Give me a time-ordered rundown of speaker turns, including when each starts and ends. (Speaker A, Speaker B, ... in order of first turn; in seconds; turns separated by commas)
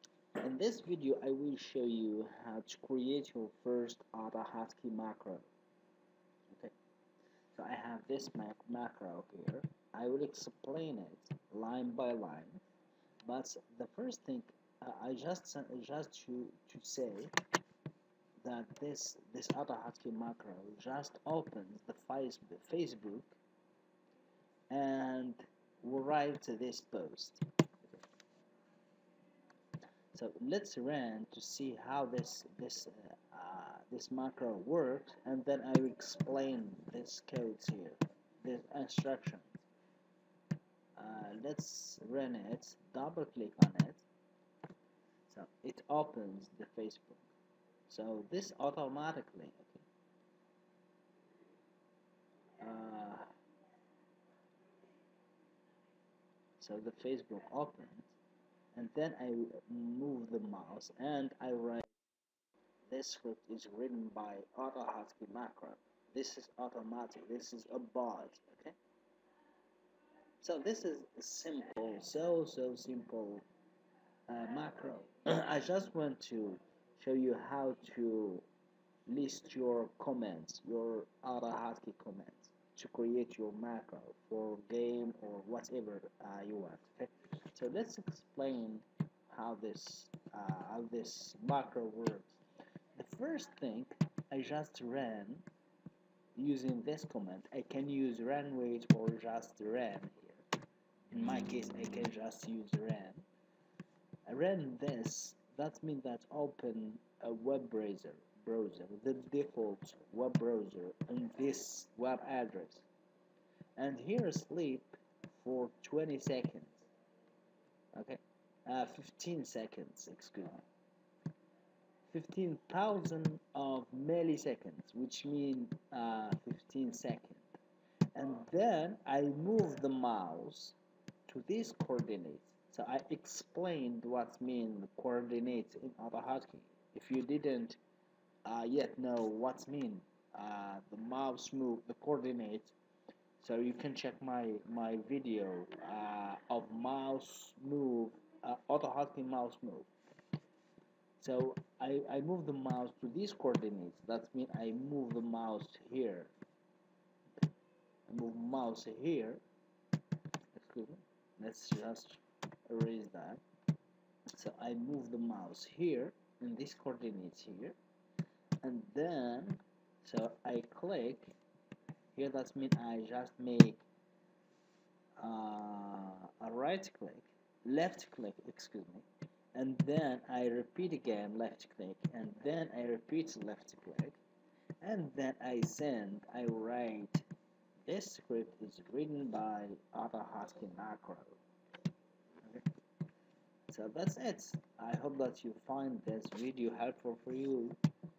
Speaker A: 0.4-5.5, Speaker A: 7.5-12.6, Speaker A: 13.3-17.3, Speaker A: 18.4-23.4, Speaker A: 24.7-28.0, Speaker A: 30.1-39.6, Speaker A: 41.0-44.0, Speaker A: 45.3-47.3, Speaker A: 47.9-49.9, Speaker A: 52.6-53.3, Speaker A: 56.6-58.1, Speaker A: 58.7-61.9, Speaker A: 62.9-68.8, Speaker A: 70.4-73.5, Speaker A: 74.3-78.5, Speaker A: 79.1-92.4, Speaker A: 93.0-95.5, Speaker A: 96.4-100.4, Speaker A: 101.1-103.3, Speaker A: 104.3-112.8, Speaker A: 113.8-116.9, Speaker A: 117.9-120.7, Speaker A: 122.1-127.5, Speaker A: 128.2-130.8, Speaker A: 131.3-137.8, Speaker A: 138.4-142.8, Speaker A: 143.4-149.9, Speaker A: 151.2-156.3, Speaker A: 158.1-159.4, Speaker A: 160.5-163.4, Speaker A: 164.3-167.8, Speaker A: 168.6-171.4, Speaker A: 172.2-173.8, Speaker A: 175.2-184.2, Speaker A: 184.8-187.3, Speaker A: 187.8-191.4, Speaker A: 193.7-197.8